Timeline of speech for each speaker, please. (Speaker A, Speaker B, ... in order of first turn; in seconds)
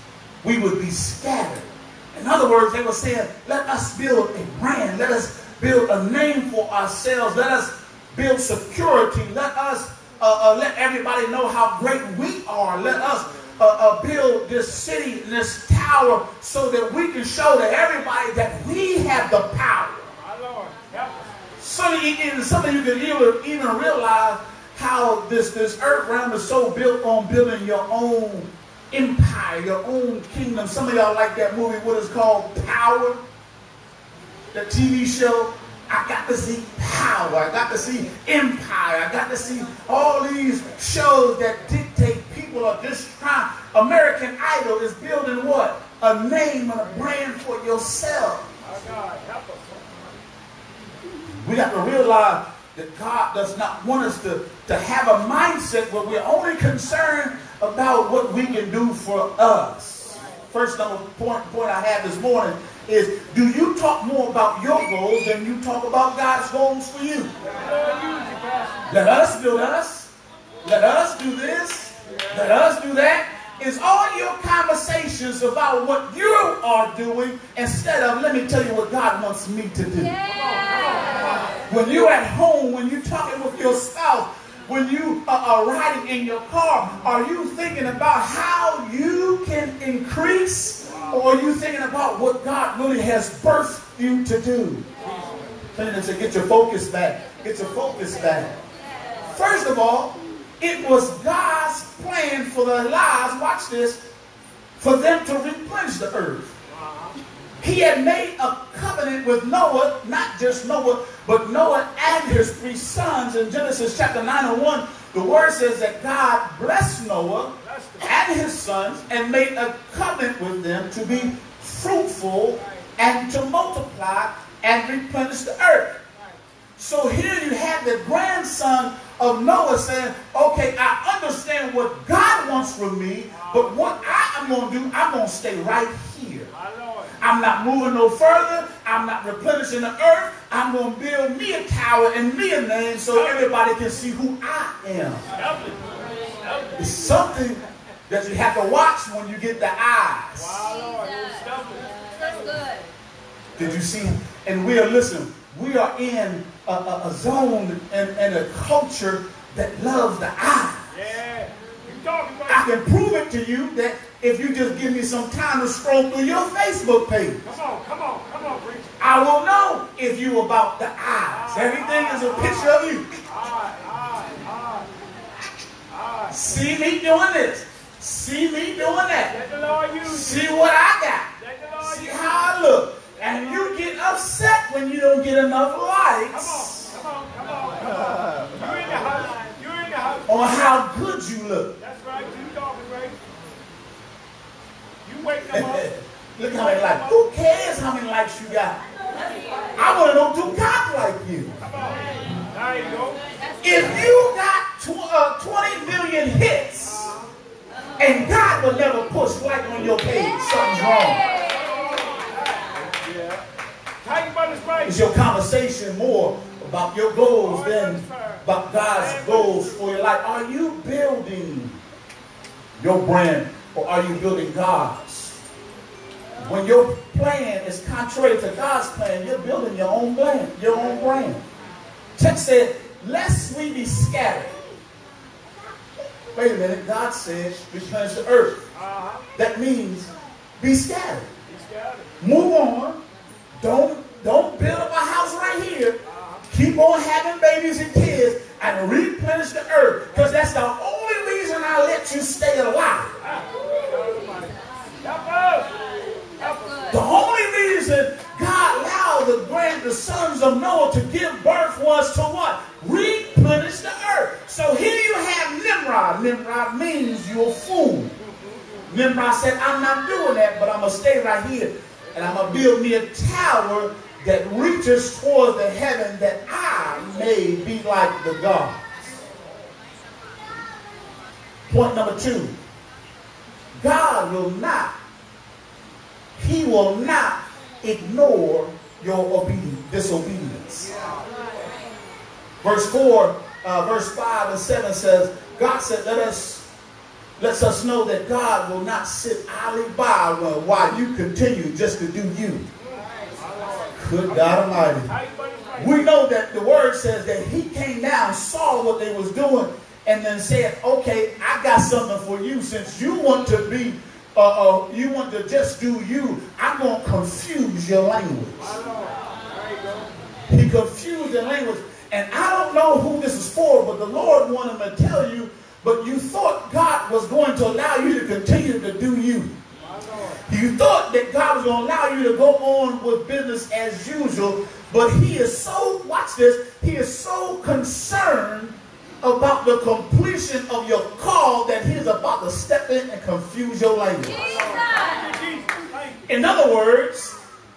Speaker A: 0.4-20.1, 21.6-33.2, 34.5-48.5, 51.4-67.3, 68.9-70.1, 70.6-80.1, 81.7-94.8, 95.8-98.5, 99.3-104.0, 104.8-106.5, 107.6-126.0, 126.8-136.5, 137.2-145.2, 146.8-150.7, 153.6-160.9, 162.5-167.4, 169.0-173.1, 176.3-179.3, 180.0-187.0, 190.3-191.8, 195.5-198.8, 199.8-201.6, 203.6-207.2, 208.0-211.2, 214.8-221.8, 222.8-225.4, 226.4-231.4, 232.2-234.6, 236.3-238.6, 239.3-241.3, 242.2-243.0, 243.6-246.0, 246.5-253.1, 256.9-268.1, 268.9-278.8, 281.7-282.6, 283.8-284.9, 286.4-290.9, 292.6-296.6, 297.4-302.6, 303.9-305.1, 305.8-318.8, 320.5-329.5, 330.5-344.5, 346.3-347.4
Speaker B: 20.1-21.3, 48.6-49.9, 67.4-68.9, 72.1-72.5, 80.2-81.6, 90.9-91.2, 95.0-95.5, 106.7-107.2, 117.6-118.2, 133.3-134.0, 136.5-137.1, 143.1-143.6, 145.3-147.1, 150.3-152.3, 153.6-153.8, 160.9-162.8, 167.4-169.0, 171.3-174.9, 175.9-176.4, 179.3-180.5, 181.4-182.5, 183.2-183.8, 186.3-190.8, 191.8-193.2, 195.0-195.9, 196.5-197.2, 201.6-203.2, 211.2-213.4, 214.0-215.1, 217.3-220.0, 238.7-239.3, 241.5-242.1, 246.0-246.5, 253.2-257.0, 268.2-268.8, 302.8-306.1, 318.6-320.1, 329.8-330.4, 344.3-346.3
Speaker C: 80.0-81.5, 98.8-99.3, 150.6-152.9, 210.4-211.9, 254.2-254.9, 256.4-257.0, 344.2-345.3